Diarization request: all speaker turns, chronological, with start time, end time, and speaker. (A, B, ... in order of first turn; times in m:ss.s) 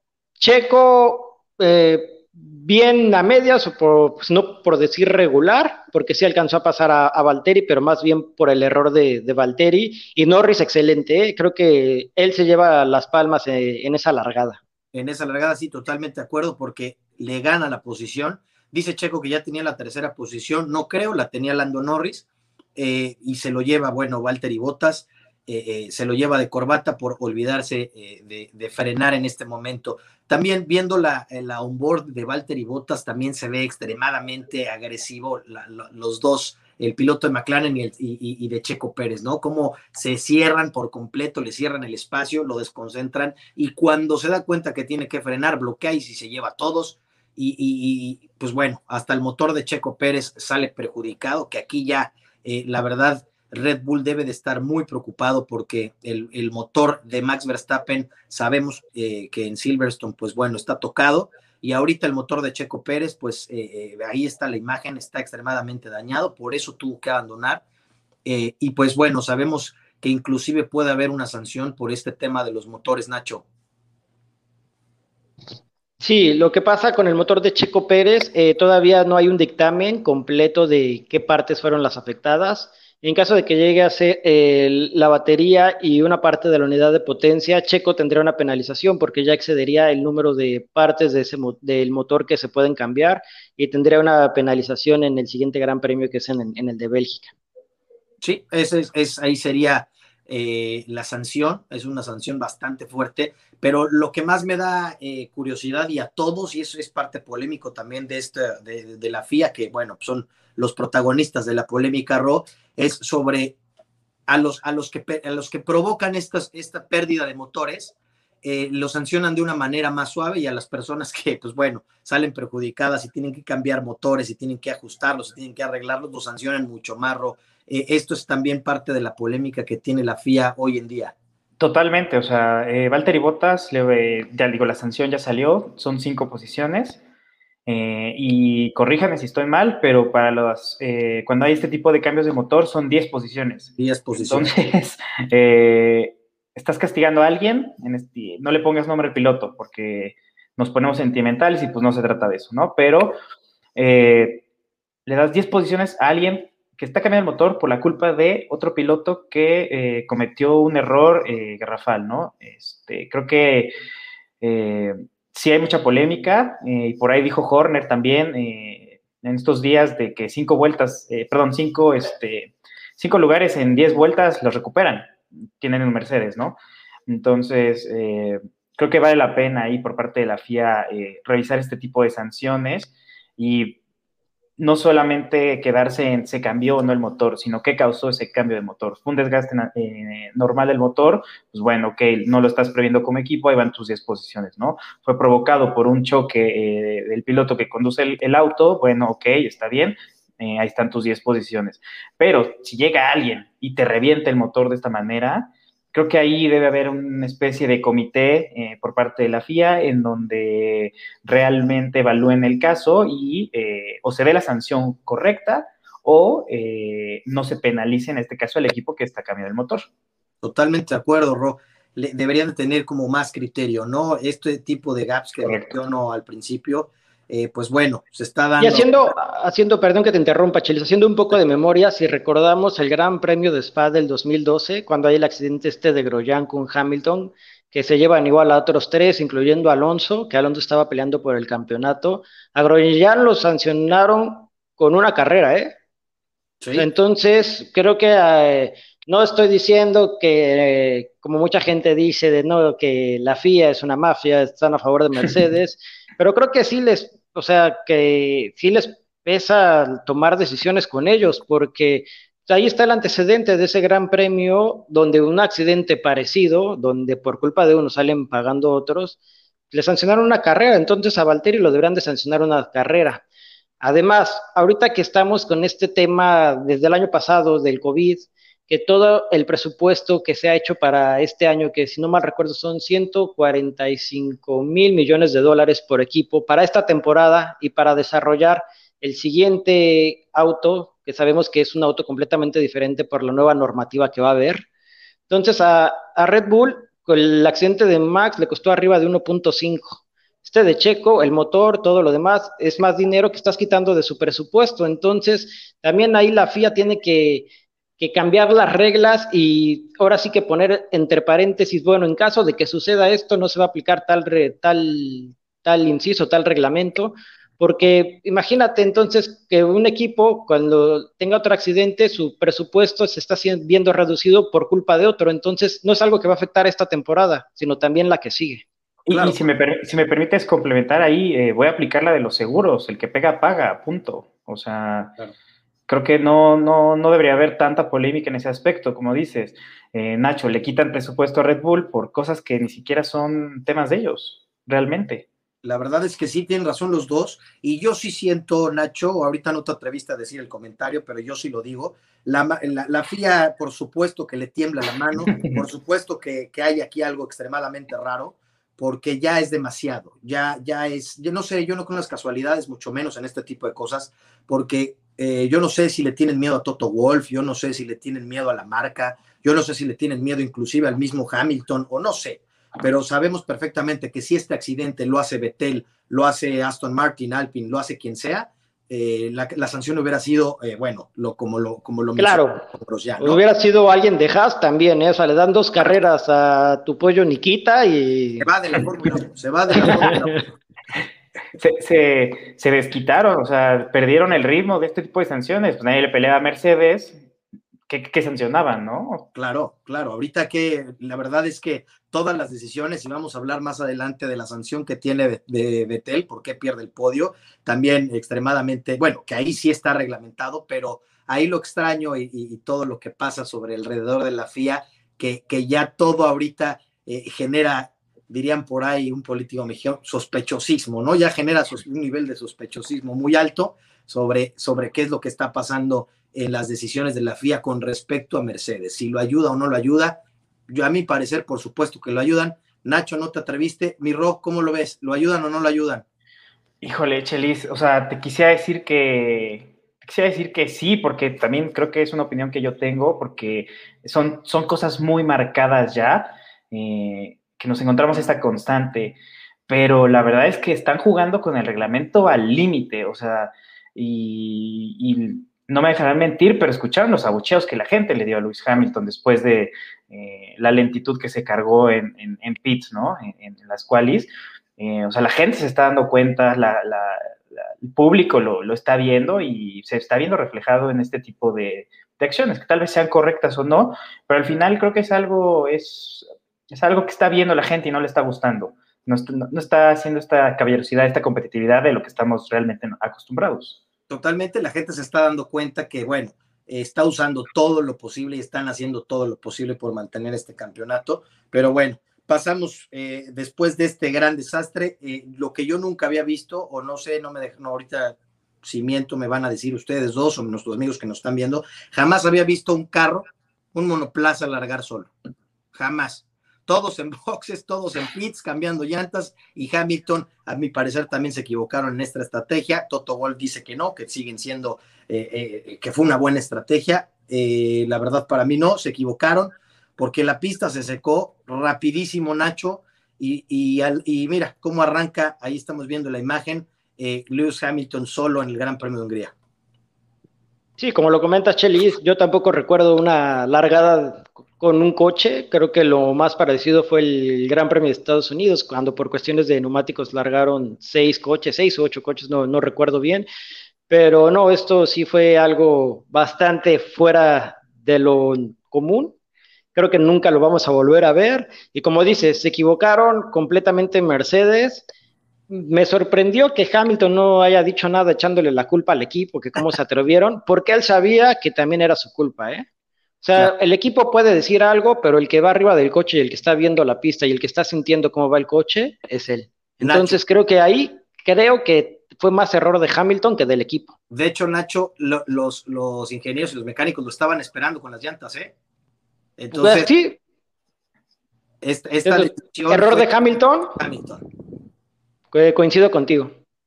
0:00.4-0:14.6 A
0:14.9-1:07.6 B
1:08.2-1:13.4 B
1:16.0-1:37.3 A
1:38.2-1:53.6 B
1:54.3-2:11.1 B
2:11.6-2:17.0 C
2:17.7-2:33.2 C
2:23.8-2:24.5 B
2:33.8-2:34.4 C
2:35.1-2:43.7 C
2:44.4-3:03.8 C
3:04.6-3:39.9 C
3:40.4-3:49.1 B
3:45.4-3:45.8 C
3:48.6-4:05.7 A
4:06.6-4:06.9 B
4:06.8-4:29.2 A
4:29.7-4:33.2 A
4:33.8-4:54.7 A
4:55.3-5:07.5 A
5:08.0-5:28.6 A
5:29.1-5:35.2 C
5:29.1-5:29.4 B
5:35.9-5:45.3 C
5:45.6-6:23.4 B
6:22.2-6:22.6 A
6:23.2-6:28.5 A
6:28.4-6:30.4 B
6:29.7-6:30.4 A
6:31.6-6:37.2 C
6:37.9-6:39.3 C
6:39.4-7:16.0 B
7:16.8-7:29.2 C
7:29.7-8:03.8 C
8:04.1-8:25.1 B
8:25.7-8:49.3 B
8:50.8-9:03.3 A
9:03.9-9:09.2 A
9:09.8-9:14.9 A
9:15.5-9:22.7 A
9:23.2-9:33.9 A
9:29.8-9:30.2 B
9:34.1-9:38.5 B
9:39.4-9:39.9 B
9:39.5-9:40.2 A
9:41.6-9:43.1 B
9:42.0-9:43.8 A
9:43.8-9:44.2 B
9:45.3-9:46.4 A